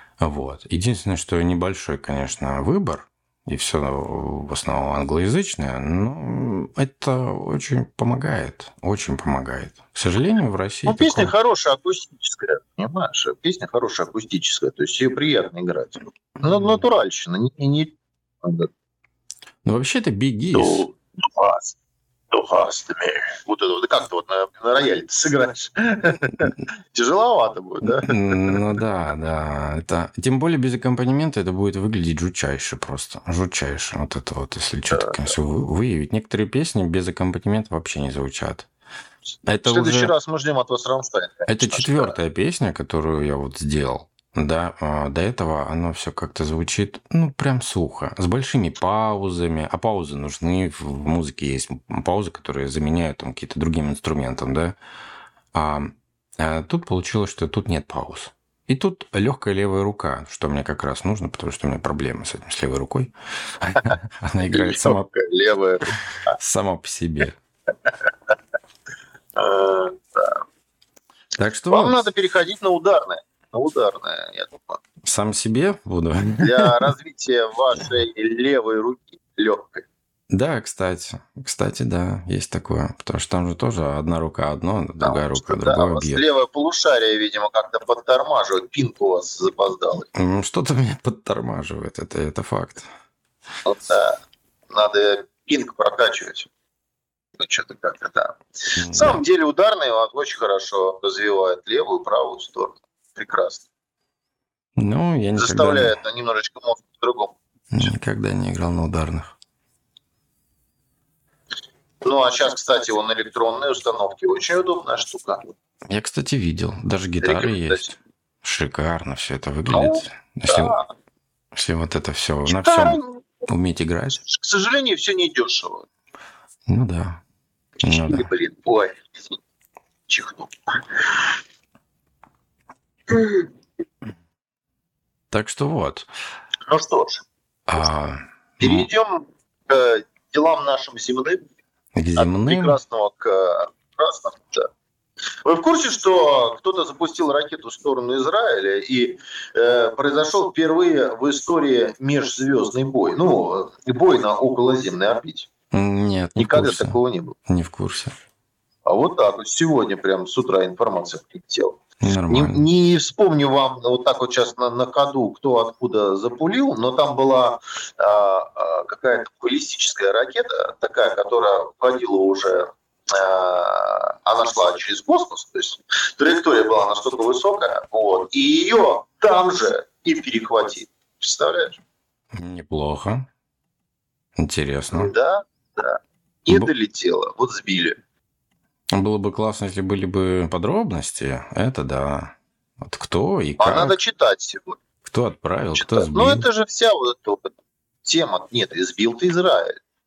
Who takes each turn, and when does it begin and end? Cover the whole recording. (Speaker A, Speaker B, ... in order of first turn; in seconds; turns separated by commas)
Speaker A: 0.2-11.3, Speaker B: 10.9-18.7, Speaker A: 16.5-16.8, Speaker A: 19.6-20.9, Speaker B: 20.5-21.8, Speaker B: 22.3-28.7, Speaker A: 27.8-38.7, Speaker B: 34.9-35.3, Speaker A: 39.5-40.1, Speaker B: 39.5-42.2, Speaker A: 41.5-54.8, Speaker A: 55.5-65.1, Speaker B: 64.5-66.4, Speaker A: 66.4-67.4, Speaker B: 69.4-70.4, Speaker A: 71.4-72.0, Speaker B: 71.7-74.8, Speaker A: 75.0-76.9, Speaker B: 76.4-79.8, Speaker A: 80.3-86.2, Speaker B: 85.0-90.1, Speaker A: 90.1-92.9, Speaker B: 93.7-94.2, Speaker B: 94.7-96.5, Speaker B: 97.4-103.7, Speaker A: 98.8-99.2, Speaker A: 104.8-106.0, Speaker B: 105.3-107.9, Speaker A: 107.7-109.3, Speaker B: 112.0-115.5, Speaker A: 115.9-120.8, Speaker B: 117.2-117.9, Speaker B: 119.7-120.9, Speaker A: 121.5-124.2, Speaker B: 122.5-123.3, Speaker B: 124.1-125.9, Speaker A: 126.7-127.2, Speaker A: 127.8-128.3, Speaker B: 127.8-129.4, Speaker B: 130.1-131.3, Speaker B: 133.1-133.5, Speaker A: 135.3-136.1, Speaker B: 136.7-137.2, Speaker A: 137.7-138.9, Speaker B: 138.6-141.4, Speaker A: 141.9-142.8, Speaker B: 142.2-144.7, Speaker B: 145.4-155.5, Speaker A: 155.7-158.2, Speaker B: 156.4-157.4, Speaker B: 158.9-181.8, Speaker A: 162.0-162.7, Speaker A: 182.3-183.3, Speaker A: 184.4-185.1, Speaker B: 184.9-188.0, Speaker A: 188.9-194.0, Speaker B: 193.6-194.8, Speaker A: 195.1-196.5, Speaker B: 195.8-197.5, Speaker B: 198.0-199.8